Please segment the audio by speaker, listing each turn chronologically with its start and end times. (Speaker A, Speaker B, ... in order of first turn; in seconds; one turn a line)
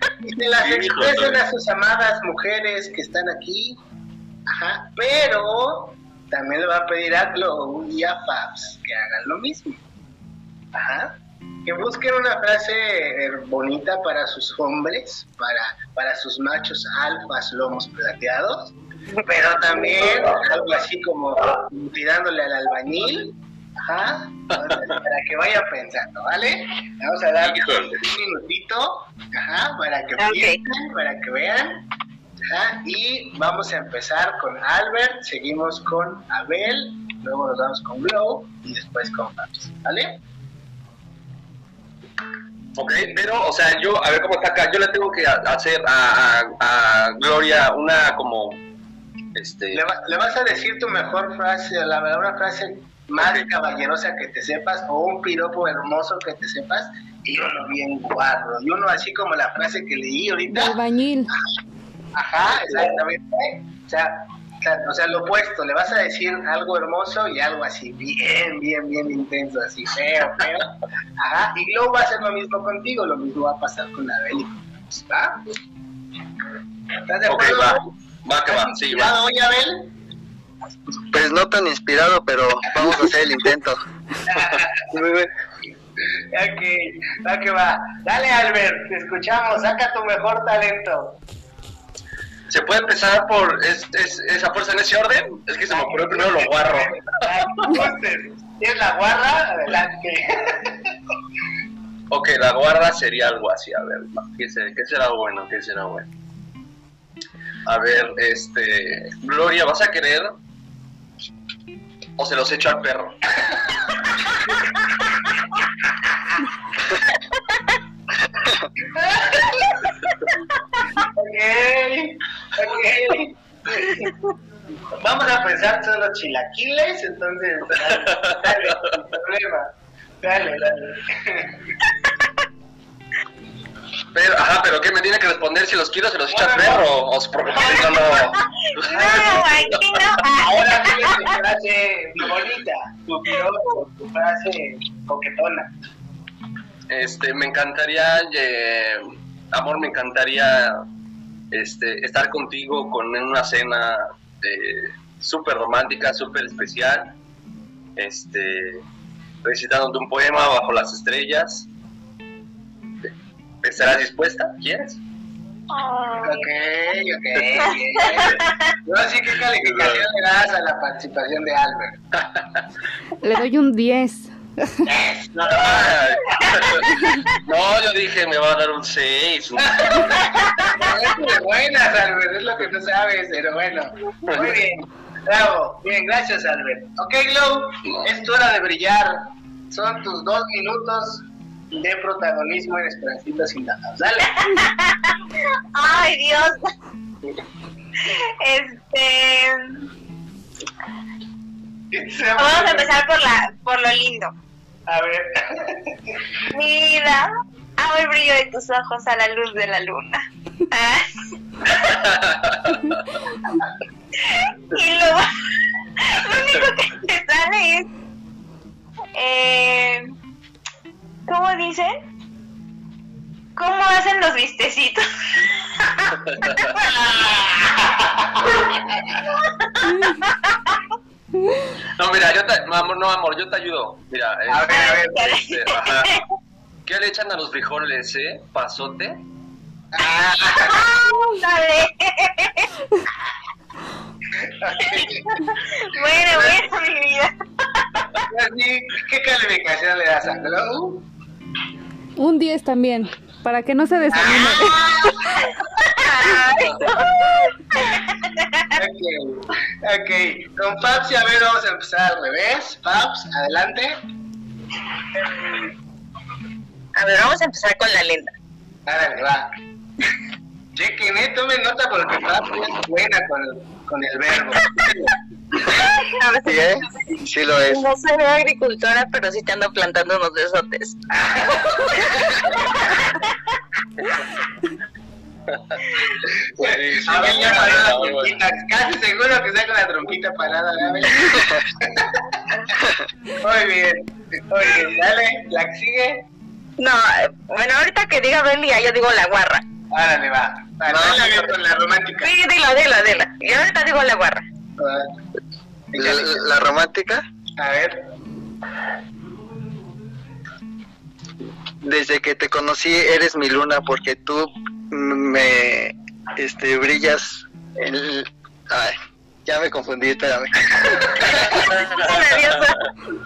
Speaker A: 0.2-3.8
Speaker B: 0.6-1.4
Speaker A: 4.5-9.8
Speaker A: 10.7-18.7
Speaker A: 19.2-31.8
Speaker B: 27.4-28.0
Speaker C: 30.2-30.6
Speaker A: 32.5-40.2
Speaker B: 42.8-48.6
Speaker B: 49.3-49.8
Speaker A: 49.7-60.8
Speaker B: 53.2-53.5
Speaker D: 60.5-61.3
Speaker A: 62.1-75.4
Speaker A: 77.1-77.8
Speaker B: 77.3-79.2
Speaker A: 78.5-79.9
Speaker E: 81.1-83.8
Speaker A: 84.3-84.9
Speaker E: 84.9-85.3
Speaker A: 86.3-91.2
Speaker B: 92.5-97.1
Speaker A: 95.7-100.9
Speaker B: 102.1-106.1
Speaker B: 107.7-110.4
Speaker B: 112.2-113.6
Speaker A: 118.8-119.9
Speaker A: 121.0-124.1
Speaker A: 125.0-129.7
Speaker A: 130.2-131.6
Speaker B: 134.1-139.9
Speaker A: 136.3-136.8
Speaker A: 137.5-145.7
Speaker F: 138.4-141.3
Speaker B: 146.9-150.8
Speaker B: 151.5-157.1
Speaker B: 158.0-158.8
Speaker B: 159.4-161.7
Speaker B: 163.6-165.0
Speaker F: 165.7-166.5
Speaker A: 166.2-172.0
Speaker F: 168.2-168.5
Speaker B: 169.6-170.0
Speaker D: 173.2-174.9
Speaker A: 174.8-176.9
Speaker B: 175.4-180.3
Speaker A: 179.6-194.7
Speaker B: 184.3-184.6
Speaker F: 194.5-195.1
Speaker F: 195.7-196.6
Speaker F: 198.0-199.8
Speaker A: 201.9-202.9
Speaker F: 202.3-204.3
Speaker A: 204.9-205.9
Speaker F: 206.5-212.0
Speaker B: 212.2-212.6
Speaker F: 214.2-215.3
Speaker F: 216.0-217.9
Speaker F: 219.1-220.1
Speaker F: 221.3-221.9
Speaker F: 223.6-226.8
Speaker B: 226.3-226.7
Speaker A: 226.8-229.2
Speaker F: 229.4-230.5
Speaker B: 232.0-236.1
Speaker A: 234.5-235.3
Speaker F: 234.7-236.2
Speaker B: 236.8-239.2
Speaker A: 239.9-240.8
Speaker F: 240.6-242.7
Speaker A: 244.4-245.4
Speaker F: 245.7-248.3
Speaker A: 245.9-246.6
Speaker A: 248.3-251.0
Speaker D: 252.2-255.1
Speaker A: 254.1-254.7
Speaker F: 254.6-258.4
Speaker A: 258.7-264.0
Speaker C: 266.9-268.3
Speaker A: 268.9-269.5
Speaker A: 270.8-275.1
Speaker C: 276.1-276.9
Speaker E: 276.4-277.8
Speaker C: 277.7-281.0
Speaker A: 281.1-282.3
Speaker B: 285.5-285.9
Speaker A: 286.6-292.8
Speaker B: 286.6-288.4
Speaker A: 293.4-296.2
Speaker C: 296.8-299.6
Speaker A: 299.9-302.3
Speaker E: 300.9-301.4
Speaker C: 302.2-304.4
Speaker A: 304.8-305.1
Speaker A: 305.9-306.4
Speaker E: 306.0-307.2
Speaker A: 307.6-308.0
Speaker E: 311.8-321.1
Speaker A: 320.8-321.6
Speaker B: 321.4-322.9
Speaker C: 321.6-322.9